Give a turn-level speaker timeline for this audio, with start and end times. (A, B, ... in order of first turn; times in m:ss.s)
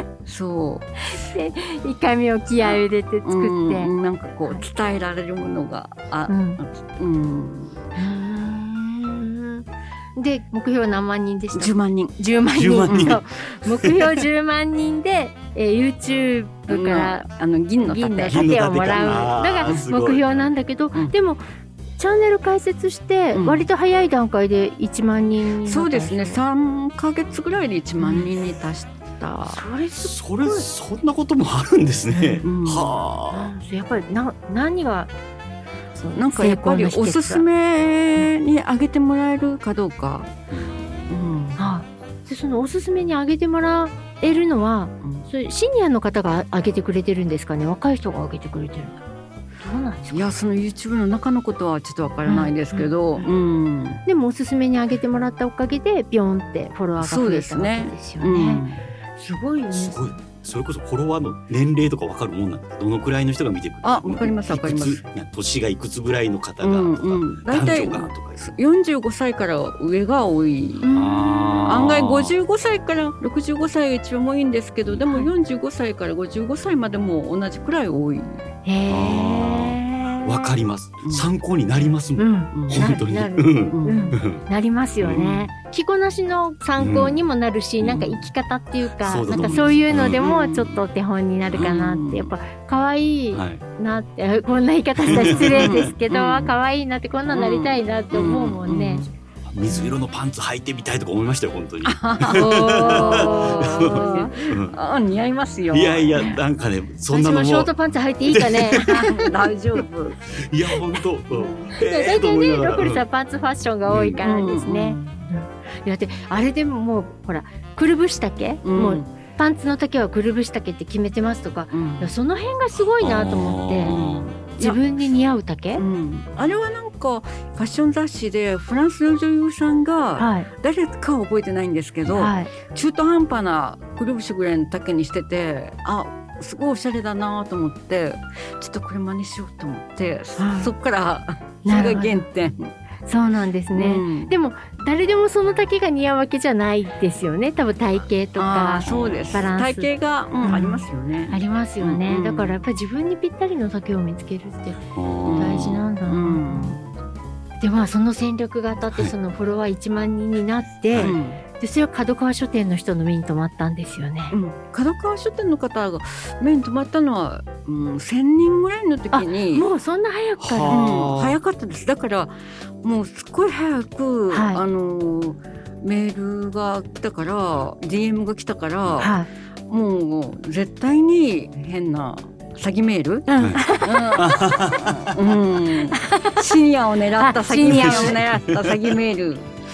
0:00.2-0:00.9 A
0:01.1-0:03.9 B
0:02.6-0:07.8 A
0:06.3-0:06.6 B
0:08.0-0:17.2 B
0:11.5-0:12.1 A
0:12.5-0:14.2 C
0:12.9-0:13.2 A
0:16.7-0:19.8 A
0:17.8-0:21.4 B
0:18.3-0:20.5 C
0:22.0-0:26.4 B
0:23.3-0:23.7 A
0:25.6-0:29.6 A
0:28.0-0:28.3 B
0:29.5-0:30.7 B
0:30.0-0:33.5 C
0:32.1-0:32.5 B
0:32.4-0:32.9 A
0:33.3-0:35.1 B
0:36.0-0:37.4 B
0:36.1-0:40.3 A
0:40.5-0:41.2 C
0:41.1-0:41.6 A
0:41.6-0:49.0 B
0:45.0-0:45.3 A
0:49.6-0:50.3 B
0:50.1-0:54.0 A
0:52.2-0:53.3 B
0:54.0-0:58.6 B
0:57.0-0:58.8 A
0:59.2-1:00.2 B
0:59.7-1:08.5 C
1:03.8-1:05.0 A
1:06.6-1:10.9 A
1:10.8-1:11.7 B
1:10.9-1:12.3 C
1:11.6-1:18.4 A
1:18.6-1:20.6 B
1:18.9-1:24.4 C
1:21.0-1:21.3 A
1:22.2-1:39.1 B
1:22.5-1:22.9 A
1:23.7-1:24.2 A
1:25.0-1:25.5 C
1:26.8-1:27.2 C
1:27.8-1:28.1 C
1:29.0-1:30.8 C
1:30.2-1:30.7 A
1:31.5-1:32.3 A
1:33.3-1:33.6 C
1:35.0-1:35.9 C
1:35.2-1:36.5 A
1:37.3-1:39.1 A
1:39.4-1:44.8 C
1:41.8-1:46.3 A
1:42.3-1:44.4 B
1:45.7-1:47.7 C
1:47.1-1:49.2 B
1:48.3-1:49.2 C
1:48.9-1:50.2 A
1:50.3-1:53.0 C
1:51.6-2:04.0 B
1:53.9-1:54.2 C
1:54.2-1:55.2 A
1:58.6-1:59.1 A
2:01.7-2:02.1 A
2:02.8-2:04.4 C
2:03.8-2:04.8 A
2:04.5-2:05.8 B
2:05.8-2:22.7 A
2:10.2-2:10.5 B
2:12.1-2:12.5 B
2:20.4-2:20.7 B
2:21.6-2:22.2 B
2:23.0-2:29.9 B
2:23.7-2:24.4 A
2:28.4-2:32.6 A
2:28.8-2:29.4 C
2:30.4-2:36.8 B
2:34.9-2:35.8 C
2:35.2-2:36.9 A
2:37.6-2:44.4 B
2:40.9-2:41.2 C
2:41.0-2:41.4 A
2:44.3-2:49.7 A
2:49.1-2:50.8 B
2:50.4-2:51.4 C
2:50.7-2:59.2 A
2:54.3-2:54.6 B
2:59.0-2:59.3 B
2:59.7-3:04.4 A
3:03.3-3:04.8 B
3:03.4-3:05.1 C
3:05.0-3:09.5 A
3:05.9-3:06.4 B
3:07.2-3:08.2 B
3:07.6-3:08.8 C